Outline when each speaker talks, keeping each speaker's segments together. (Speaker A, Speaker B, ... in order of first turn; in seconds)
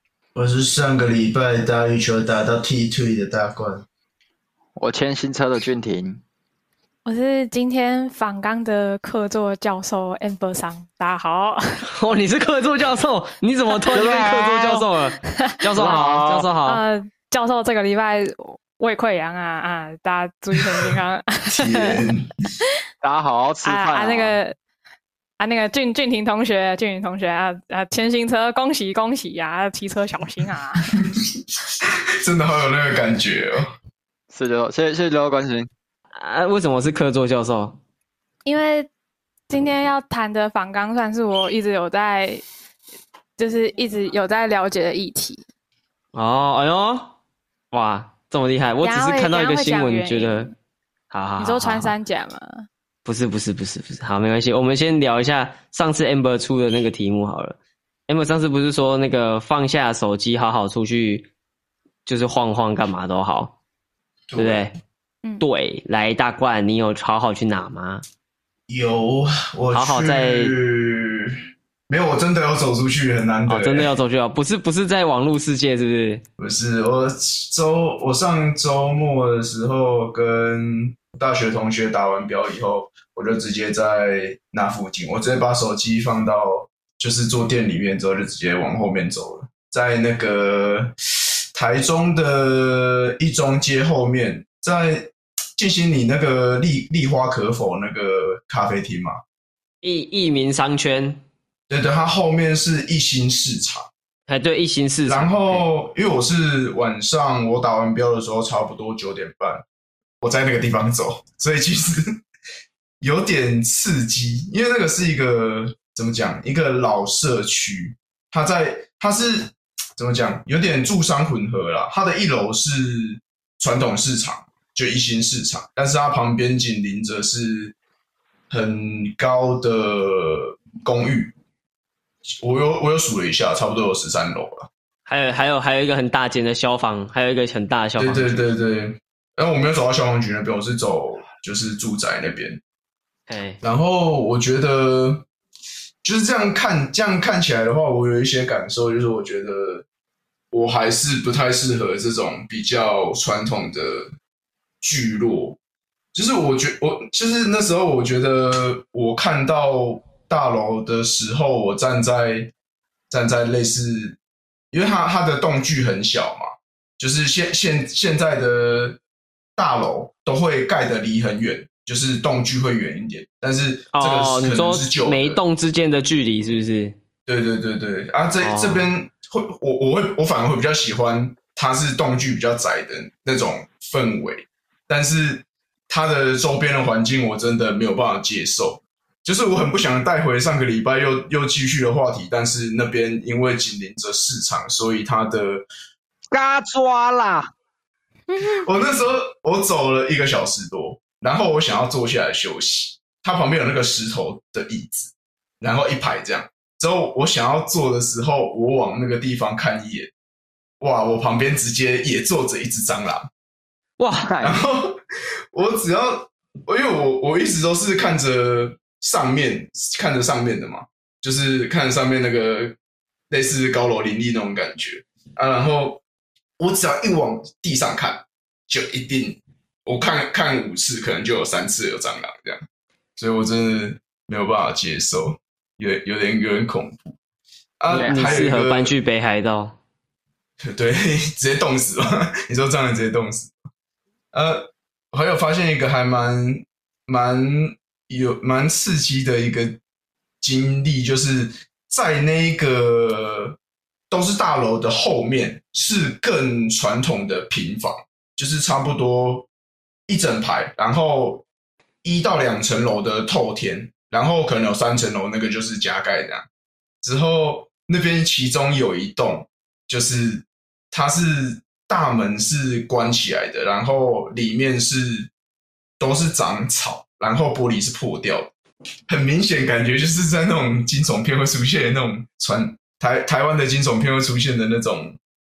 Speaker A: 0.3-3.9, 21.5-22.3, 31.0-33.7, 64.3-64.6, 68.7-71.4, 71.9-73.9, 76.4-90.9, 91.5-99.2, 101.7-103.9, 105.1-109.7, 110.2-112.2, 113.0-127.8, 128.5-131.3, 132.4-134.7, 138.0-142.6, 143.6-145.3, 146.0-149.8, 150.5-154.1, 154.8-155.6, 156.1-162.5, 163.1-164.2, 164.7-169.0, 169.6-175.4, 177.3-195.7, 198.4-210.1, 210.8-213.3, 214.4-215.0, 215.5-222.8, 223.3-226.0, 226.6-232.6, 233.2-237.2, 237.8-238.9, 240.6-243.5, 244.3-249.8, 250.4-253.6, 254.1-259.5, 260.1-261.4, 262.0-266.5, 267.0-275.3, 276.0-278.5, 279.1-285.2
Speaker B: 4.8-6.2, 13.9-14.9, 15.7-16.5, 23.0-24.4, 34.3-35.7, 196.3-197.5, 214.2-214.6, 237.9-238.5
Speaker C: 7.0-11.8, 15.3-15.6, 16.6-22.0, 23.6-24.6, 25.4-30.9, 38.5-38.9, 39.5-42.4, 43.4-45.5, 48.8-50.5, 51.4-52.7, 198.3-198.7
Speaker D: 11.9-16.8, 36.2-37.8, 46.1-47.1, 47.7-50.5, 51.1-51.9, 53.0-57.6, 58.1-61.3, 62.1-63.5, 64.4-64.8, 65.4-68.0, 69.7-70.5, 73.5-76.2, 99.8-101.2, 104.3-105.7, 135.1-138.5, 143.3-143.6, 173.9-177.0, 178.4-178.9, 214.0-214.3, 237.9-239.8